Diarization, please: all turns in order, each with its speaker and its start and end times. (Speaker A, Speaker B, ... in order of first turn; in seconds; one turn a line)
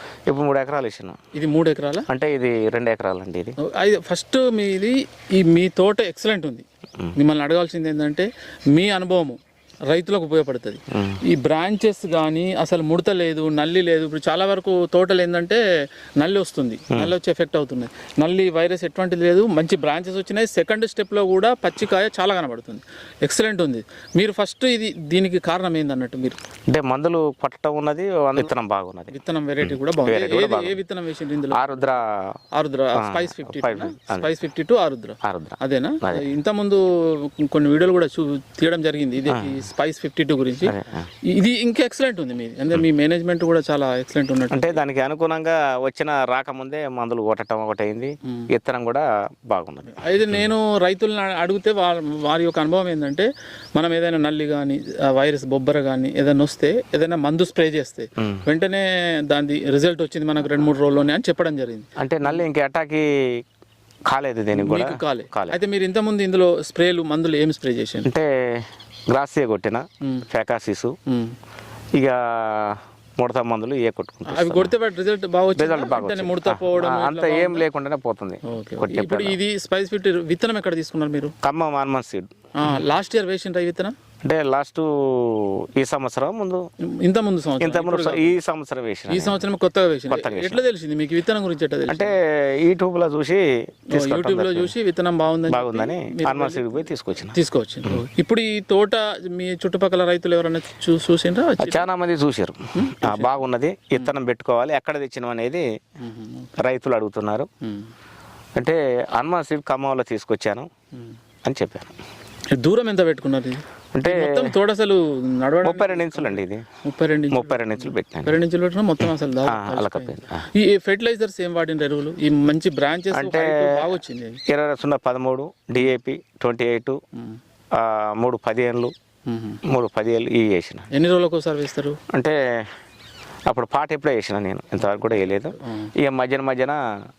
Speaker A: 0.3-1.2
Speaker B: 1.4-2.1
Speaker A: 2.1-3.5
Speaker B: 3.6-9.4
Speaker B: 9.9-15.6
Speaker A: 10.9-11.2
Speaker B: 16.2-26.4
Speaker A: 26.7-30.8
Speaker B: 29.1-31.9
Speaker A: 31.5-32.0
Speaker B: 32.5-40.7
Speaker A: 33.0-34.3
Speaker A: 35.2-36.2
Speaker A: 39.3-39.6
Speaker A: 40.6-41.1
Speaker B: 41.3-44.8
Speaker A: 44.5-50.4
Speaker B: 49.8-62.4
Speaker A: 58.2-58.4
Speaker A: 62.0-63.4
Speaker A: 64.1-65.6
Speaker B: 64.5-68.1
Speaker A: 68.0-70.9
Speaker B: 70.0-70.3
Speaker B: 71.1-71.3
Speaker A: 71.9-74.7
Speaker B: 74.3-77.6
Speaker A: 75.6-79.4
Speaker B: 78.5-81.3
Speaker A: 81.4-82.8
Speaker B: 82.6-84.0
Speaker A: 84.2-86.6
Speaker B: 86.8-88.3
Speaker A: 87.6-89.4
Speaker B: 89.1-92.1
Speaker A: 90.1-90.6
Speaker A: 91.9-94.7
Speaker B: 93.9-101.9
Speaker A: 95.5-98.0
Speaker A: 101.6-105.6
Speaker B: 102.7-103.4
Speaker B: 106.0-106.5
Speaker A: 106.6-107.5
Speaker B: 107.6-107.9
Speaker A: 108.6-110.7
Speaker A: 111.4-111.9
Speaker B: 112.6-124.4
Speaker A: 113.9-114.5
Speaker A: 115.6-116.6
Speaker A: 117.3-118.3
Speaker A: 119.0-120.4
Speaker A: 123.1-123.9
Speaker A: 124.5-127.0
Speaker A: 127.7-128.9
Speaker B: 129.3-129.6
Speaker A: 129.6-130.9
Speaker B: 130.9-132.0
Speaker A: 132.1-132.7
Speaker A: 133.5-136.8
Speaker B: 135.6-135.9